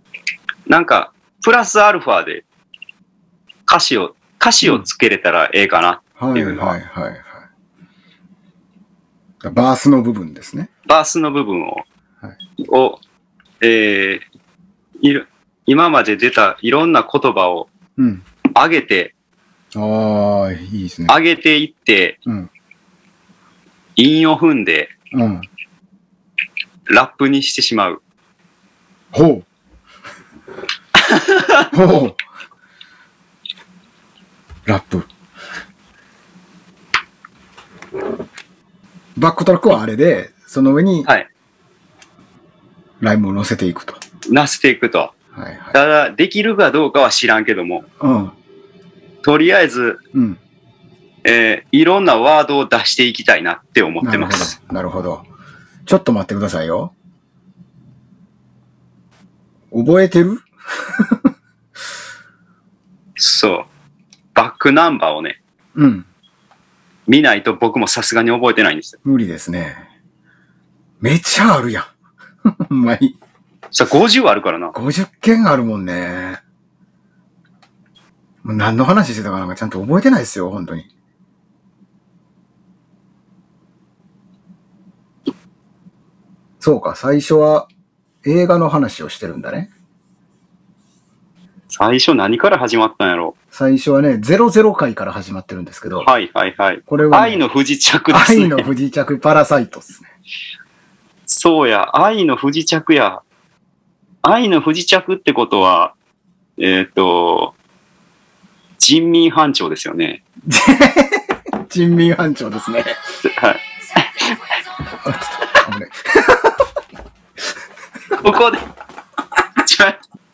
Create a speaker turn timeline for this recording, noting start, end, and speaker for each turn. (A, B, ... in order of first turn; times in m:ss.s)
0:00.7-0:02.4 A
0:03.7-0:06.8 A
0:06.2-0:07.4 B
0:09.4-0:10.7 B
0:10.9-0:11.8 A
0:12.6-0:13.0 A
0:13.6-0:14.2 A
0:15.0-0:17.7 A
0:18.0-0:18.2 B
0:18.5-0:19.1 A
0:19.7-0:21.2 B
0:21.1-0:22.2 A
0:24.0-0:24.9 A
0:25.1-0:25.5 B
0:26.9-0:28.0 A
0:29.1-0:29.5 B
0:31.1-0:31.7 A
0:31.7-0:32.2 B
0:34.7-0:35.1 B
0:39.2-0:41.1 B
0:43.0-0:44.0 B
0:44.3-0:45.1 A
0:45.4-0:45.8 B
0:45.7-0:47.8 A
0:48.0-0:48.3 B
0:49.2-0:50.0 A
0:50.1-0:50.4 B
0:51.2-0:54.6 A
0:54.0-0:55.2 B
0:55.9-0:56.9 B
0:59.7-1:01.3 B
1:03.2-1:03.7 A
1:04.4-1:05.4 A
1:05.8-1:06.1 B
1:07.1-1:09.0 A
1:09.0-1:09.8 B
1:11.0-1:11.9 B
1:12.4-1:13.2 B
1:13.7-1:14.8 A
1:14.7-1:16.4 B
1:18.4-1:20.9 B
1:26.6-1:27.7 B
1:28.2-1:29.7 B
1:31.7-1:33.3 A
1:33.5-1:36.1 B
1:36.0-1:38.7 A
1:36.9-1:37.4 B
1:38.1-1:40.1 B
1:41.3-1:43.2 A
1:44.2-1:46.0 A
1:46.6-1:47.6 A
1:48.8-1:50.2 A
1:50.4-1:53.0 B
1:53.2-1:54.4 A
1:55.0-1:56.6 B
1:58.2-1:58.6 A
1:59.6-2:00.0 A